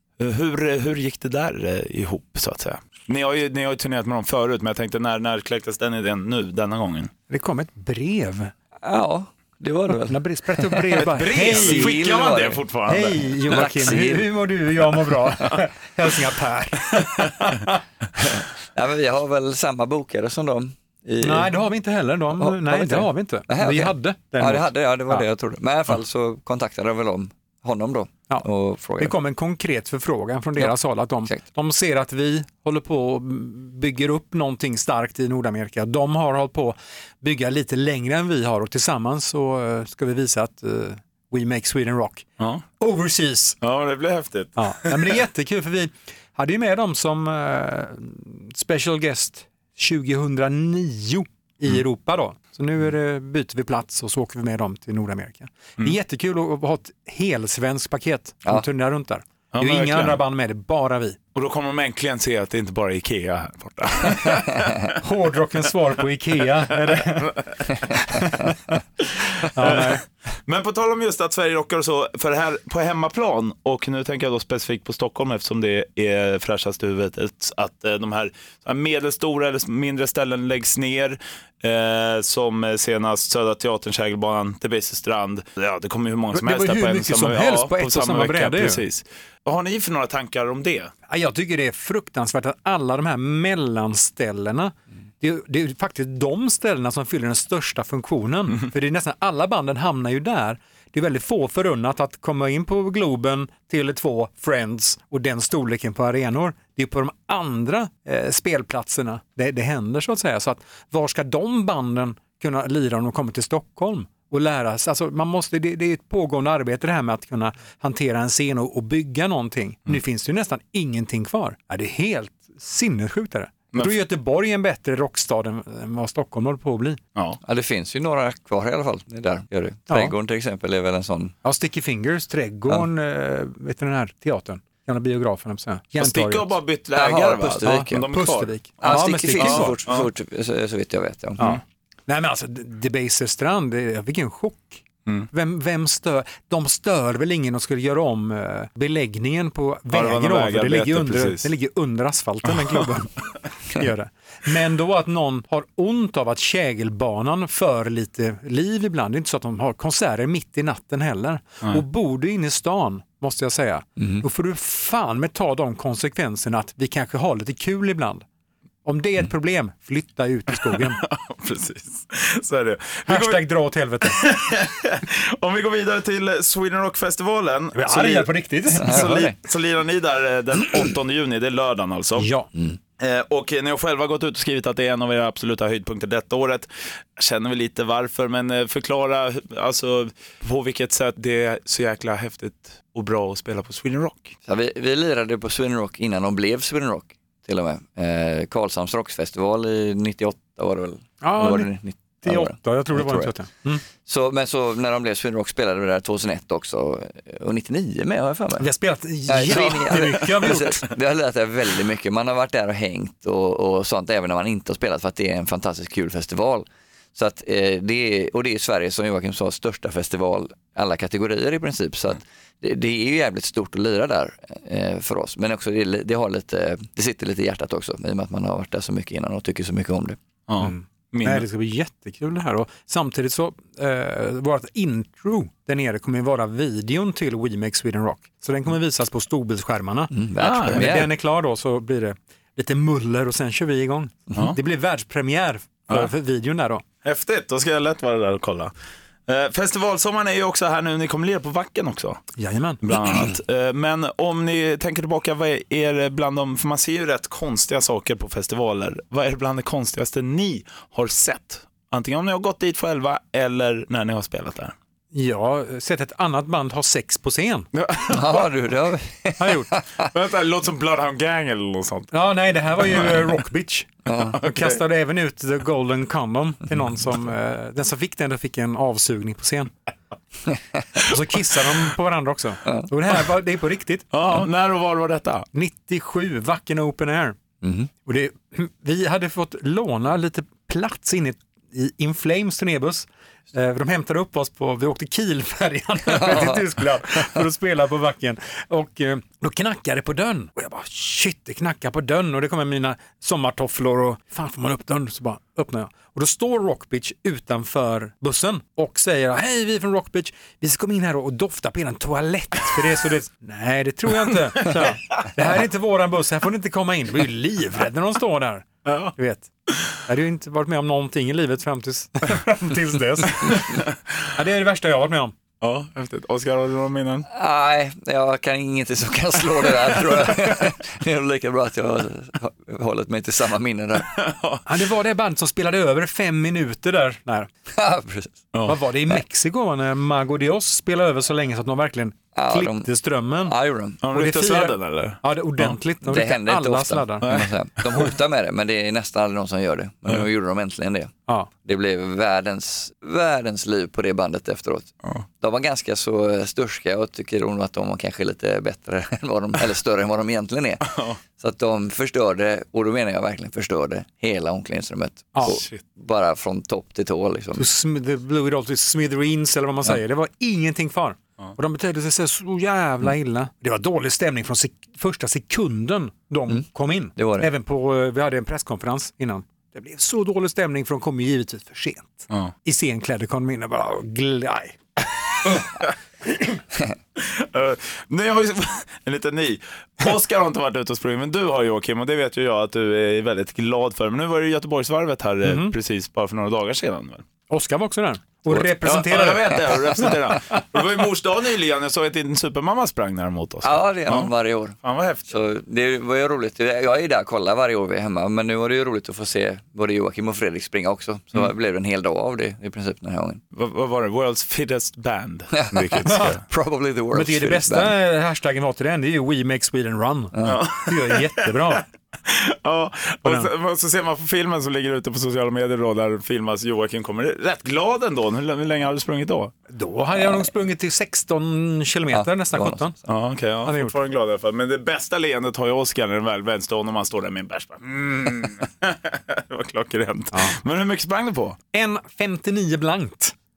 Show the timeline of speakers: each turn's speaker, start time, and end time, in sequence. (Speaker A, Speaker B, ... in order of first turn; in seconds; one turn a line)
Speaker A: 0.2-7.1
Speaker B: 7.3-8.5
Speaker C: 8.8-12.6
Speaker B: 10.1-12.0
Speaker A: 11.0-13.2
Speaker B: 12.8-17.7
Speaker C: 13.5-14.3
Speaker C: 18.2-21.5
Speaker B: 21.2-25.3
Speaker C: 22.3-29.1
Speaker B: 29.0-42.3
Speaker B: 42.8-43.6
Speaker A: 43.6-45.0
Speaker B: 44.5-61.2
Speaker A: 59.5-60.2
Speaker A: 61.3-64.9
Speaker B: 64.9-68.8
Speaker A: 69.0-90.9
Speaker B: 69.5-70.0
Speaker B: 86.3-88.8
Speaker B: 91.1-127.0
Speaker A: 127.1-127.4
Speaker C: 127.4-131.3
Speaker B: 129.9-130.1
Speaker B: 131.4-136.6
Speaker A: 136.0-138.6
Speaker C: 136.9-138.1
Speaker B: 137.6-139.8
Speaker C: 138.8-141.5
Speaker A: 139.4-140.1
Speaker B: 141.4-168.2
Speaker A: 149.9-151.5
Speaker B: 168.8-171.0
Speaker A: 170.8-173.4
Speaker B: 173.1-174.2
Speaker A: 174.0-182.3
Speaker B: 177.7-179.2
Speaker C: 178.8-179.3
Speaker B: 182.2-182.5
Speaker A: 183.0-194.3
Speaker C: 194.5-203.3
Speaker B: 201.2-203.8
Speaker C: 204.0-208.7
Speaker B: 208.6-210.9
Speaker C: 209.2-230.2
Speaker A: 230.5-231.4
Speaker B: 230.6-240.1
Speaker C: 240.1-241.1
Speaker A: 240.4-240.9
Speaker B: 240.6-246.8
Speaker A: 247.0-248.7
Speaker A: 249.3-252.2
Speaker B: 252.4-252.8
Speaker A: 252.8-264.7
Speaker B: 265.1-267.7
Speaker A: 267.7-268.5
Speaker C: 268.1-270.0
Speaker B: 269.4-269.7
Speaker A: 270.1-272.1
Speaker B: 272.1-279.7
Speaker A: 272.8-273.3
Speaker C: 274.1-274.4
Speaker A: 274.2-274.8
Speaker B: 280.9-284.1
Speaker A: 284.1-285.4
Speaker B: 285.5-287.4
Speaker C: 287.6-287.9
Speaker B: 288.0-319.5
Speaker C: 296.1-296.6
Speaker A: 318.9-319.1
Speaker B: 320.0-323.8
Speaker B: 324.3-325.3
Speaker A: 325.6-327.3
Speaker C: 327.3-334.1
Speaker A: 334.0-334.6
Speaker B: 334.6-337.5
Speaker C: 337.7-338.5
Speaker B: 338.6-343.5
Speaker C: 342.3-342.9
Speaker C: 343.4-344.0
Speaker A: 344.0-345.8
Speaker B: 344.1-347.3
Speaker C: 346.0-351.1
Speaker A: 347.2-348.1
Speaker B: 351.3-351.5
Speaker C: 351.6-367.7
Speaker A: 360.8-361.2
Speaker A: 365.4-365.8
Speaker B: 367.5-384.8
Speaker C: 377.1-377.5
Speaker A: 387.1-397.2
Speaker B: 395.4-395.7
Speaker B: 397.5-400.1
Speaker A: 398.5-405.4
Speaker C: 403.6-413.4
Speaker A: 413.5-416.4
Speaker C: 415.5-417.9
Speaker B: 416.1-416.4
Speaker B: 417.1-421.8
Speaker C: 420.3-420.6
Speaker A: 420.4-429.5
Speaker B: 423.2-423.5
Speaker B: 429.7-432.9
Speaker C: 432.1-433.0
Speaker A: 433.1-441.6
Speaker B: 433.6-433.9
Speaker B: 441.7-443.3